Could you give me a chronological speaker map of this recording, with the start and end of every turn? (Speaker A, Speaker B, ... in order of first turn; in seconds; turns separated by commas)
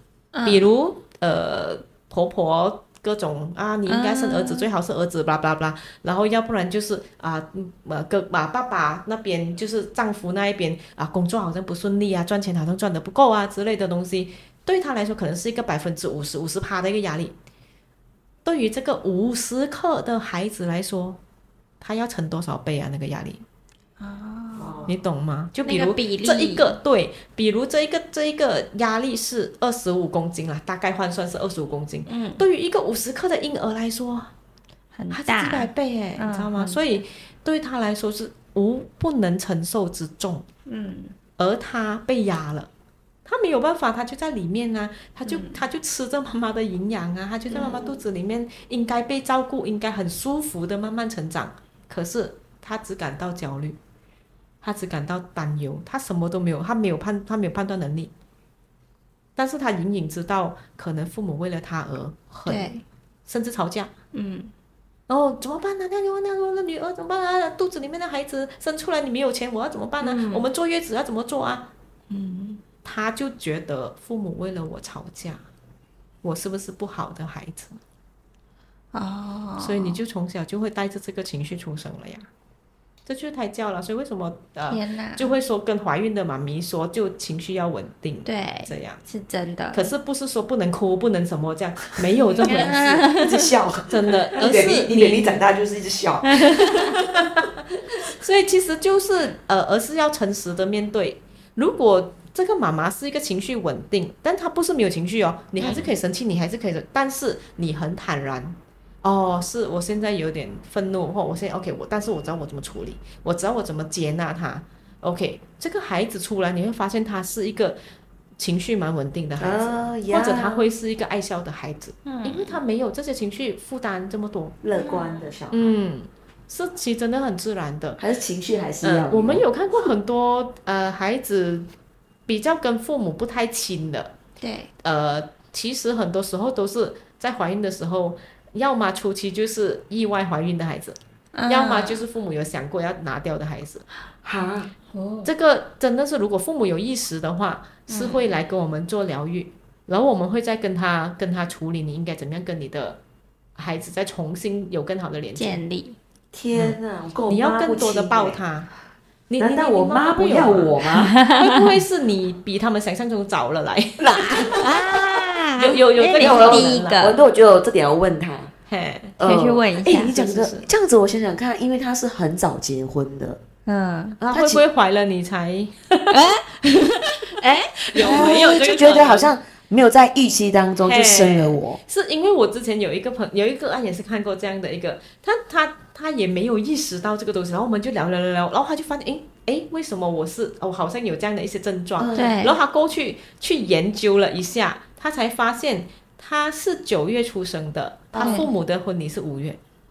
Speaker A: 0.3-0.7, Speaker B: 0.5-17.4, Speaker A: 3.9-4.7, Speaker B: 18.4-21.2, Speaker B: 21.8-23.4, Speaker A: 24.0-24.9, Speaker C: 24.6-24.9, Speaker B: 24.9-34.3, Speaker A: 25.6-26.8, Speaker A: 32.1-32.4, Speaker A: 35.0-36.8, Speaker B: 35.1-40.5, Speaker A: 40.7-41.1, Speaker B: 41.4-42.7, Speaker B: 43.3-53.8, Speaker A: 45.3-45.6, Speaker A: 47.5-48.0, Speaker B: 54.6-58.1, Speaker B: 59.4-63.9, Speaker A: 62.5-62.8, Speaker A: 64.1-64.5, Speaker B: 65.1-71.7, Speaker A: 70.0-70.5, Speaker A: 72.1-72.6, Speaker B: 72.8-75.5, Speaker B: 76.2-77.8, Speaker A: 78.9-80.0, Speaker B: 79.6-82.3, Speaker B: 83.1-89.0, Speaker A: 84.7-85.3, Speaker A: 88.2-89.9, Speaker B: 89.7-93.2, Speaker A: 92.4-93.5, Speaker C: 92.4-97.0, Speaker B: 93.9-95.4, Speaker A: 96.3-97.0, Speaker B: 97.2-97.4, Speaker B: 98.0-117.8, Speaker A: 105.6-105.9, Speaker B: 118.4-124.6, Speaker C: 119.4-120.7, Speaker A: 122.0-122.6, Speaker C: 124.6-125.7, Speaker A: 124.8-125.3, Speaker B: 125.5-128.0, Speaker C: 128.0-129.5, Speaker B: 128.8-131.7, Speaker B: 132.3-134.1, Speaker A: 134.4-134.7, Speaker B: 134.8-141.0, Speaker A: 141.3-142.0, Speaker B: 141.5-143.8, Speaker C: 144.2-144.7, Speaker A: 144.9-145.3, Speaker B: 145.2-153.0, Speaker A: 147.9-148.3, Speaker B: 153.6-155.6, Speaker A: 155.4-156.0, Speaker C: 156.3-158.4, Speaker B: 156.5-158.7, Speaker B: 159.3-164.7, Speaker C: 159.4-161.2, Speaker A: 161.0-161.6, Speaker C: 164.0-164.6, Speaker A: 164.6-167.2, Speaker B: 165.6-167.1, Speaker C: 166.2-168.5, Speaker B: 168.7-169.2, Speaker C: 169.2-173.4, Speaker A: 169.2-170.1, Speaker B: 169.8-170.7, Speaker A: 173.7-174.2, Speaker C: 174.2-174.6, Speaker B: 174.2-176.1, Speaker A: 176.1-178.5, Speaker B: 177.9-179.3, Speaker C: 178.0-181.8, Speaker B: 180.8-199.6, Speaker C: 192.0-192.4, Speaker A: 192.2-192.6, Speaker C: 198.1-198.5, Speaker A: 198.2-198.5